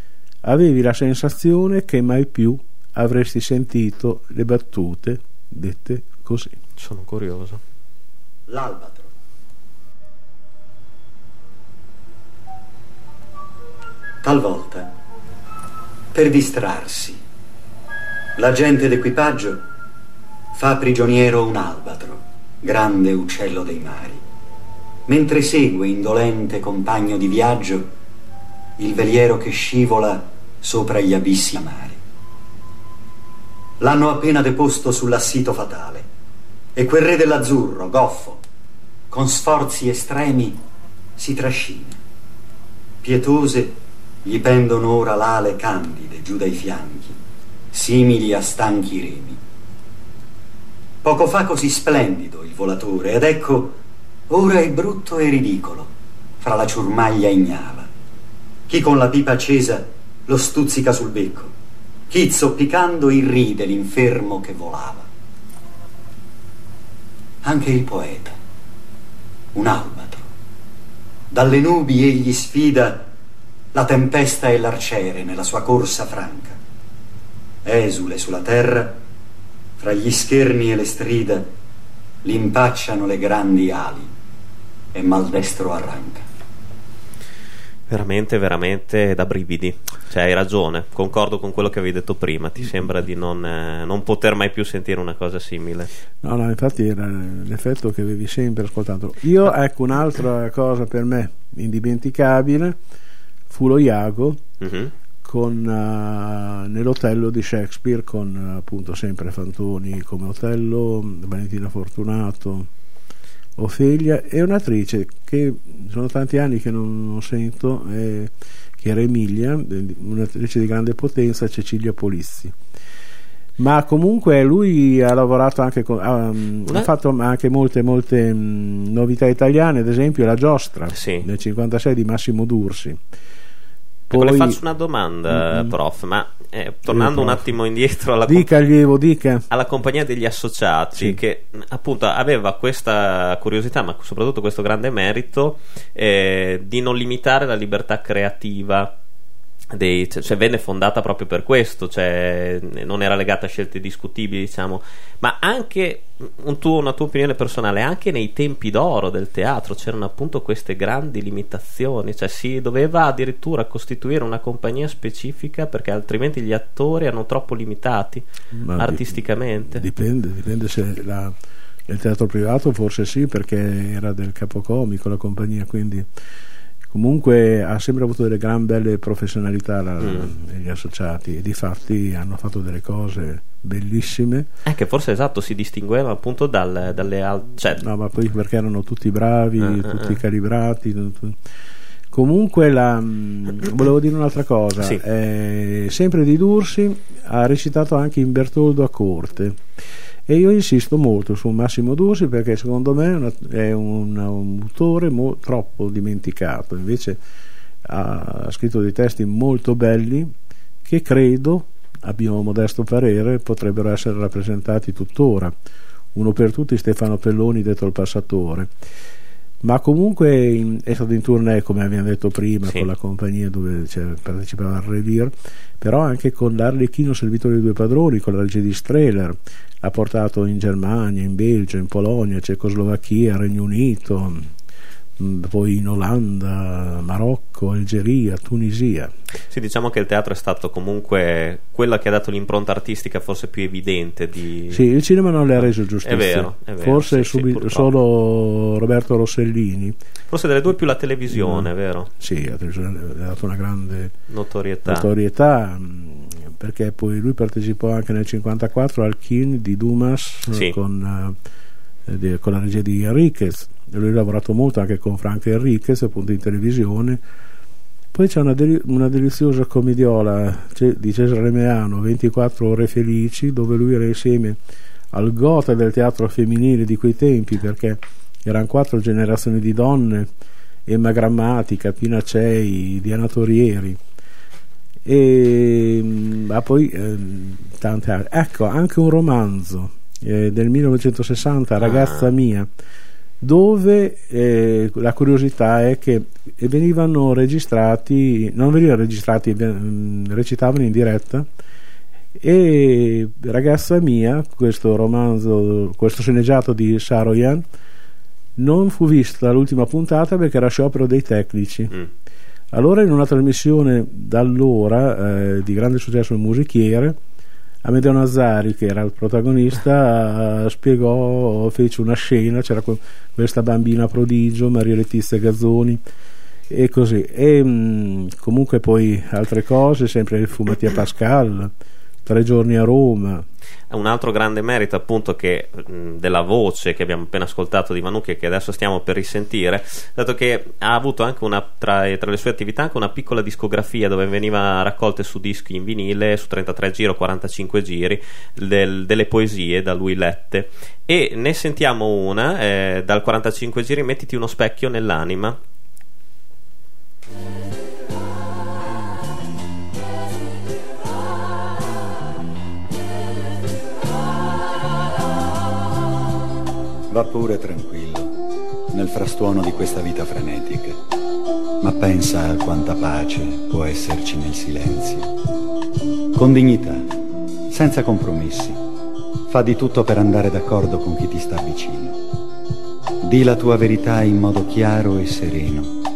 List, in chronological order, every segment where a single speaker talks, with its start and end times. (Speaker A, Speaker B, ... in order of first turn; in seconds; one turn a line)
Speaker A: 0.4-6.5
Speaker B: 6.8-7.6
Speaker C: 8.5-9.1
Speaker C: 14.2-14.9
Speaker C: 16.1-17.2
Speaker C: 18.4-19.6
Speaker C: 20.5-24.2
Speaker C: 25.1-27.9
Speaker C: 28.8-32.0
Speaker C: 33.8-36.0
Speaker C: 36.7-38.4
Speaker C: 39.1-40.6
Speaker C: 41.2-42.0
Speaker C: 43.0-47.2
Speaker C: 47.7-49.4
Speaker C: 51.0-53.8
Speaker C: 54.3-57.9
Speaker C: 58.7-61.5
Speaker C: 62.1-65.1
Speaker C: 67.4-68.4
Speaker C: 69.5-70.3
Speaker C: 71.3-73.1
Speaker C: 73.7-76.6
Speaker C: 77.6-79.0
Speaker C: 79.8-81.5
Speaker C: 82.2-84.1
Speaker C: 84.9-86.2
Speaker B: 87.9-95.9
Speaker A: 96.2-102.8
Speaker A: 103.5-104.4
Speaker B: 104.6-104.9
Speaker A: 105.2-112.7
Speaker A: 113.5-122.5
Speaker A: 123.6-133.0
Speaker B: 130.9-131.2
Speaker A: 134.1-134.6
Speaker B: 134.1-138.5
Speaker A: 135.3-135.7
Speaker A: 136.9-137.4
Speaker A: 138.2-139.4
Speaker B: 139.5-148.9
Speaker B: 149.7-169.8
Speaker A: 168.5-171.3
Speaker A: 171.9-176.1
Speaker A: 176.9-184.5
Speaker B: 180.0-180.3
Speaker B: 184.7-187.8
Speaker A: 187.8-191.4
Speaker B: 189.6-190.2
Speaker A: 192.1-199.6
Speaker A: 200.3-207.2
Speaker A: 207.8-210.3
Speaker A: 210.8-215.5
Speaker A: 216.1-218.7
Speaker A: 219.6-234.5
Speaker A: 235.2-239.1
Speaker B: 239.5-244.8
Speaker A: 244.7-249.9
Speaker B: 245.6-247.9
Speaker B: 250.3-252.1
Speaker A: 251.3-254.1
Speaker B: 254.3-255.1
Speaker A: 254.8-261.4
Speaker B: 260.5-260.7
Speaker A: 262.1-267.2
Speaker A: 268.1-274.6
Speaker A: 275.1-280.3
Speaker A: 280.9-284.0
Speaker A: 285.0-292.7
Speaker B: 291.8-292.3
Speaker A: 293.4-301.5
Speaker A: 302.4-307.6
Speaker A: 308.6-311.9
Speaker A: 312.7-317.2
Speaker A: 317.8-326.0
Speaker A: 326.7-331.7
Speaker A: 332.2-333.4
Speaker B: 333.9-355.6
Speaker C: 367.1-368.3
Speaker C: 368.9-371.0
Speaker C: 371.8-375.3
Speaker C: 376.3-377.1
Speaker C: 377.7-378.8
Speaker C: 379.5-382.2
Speaker C: 383.2-385.9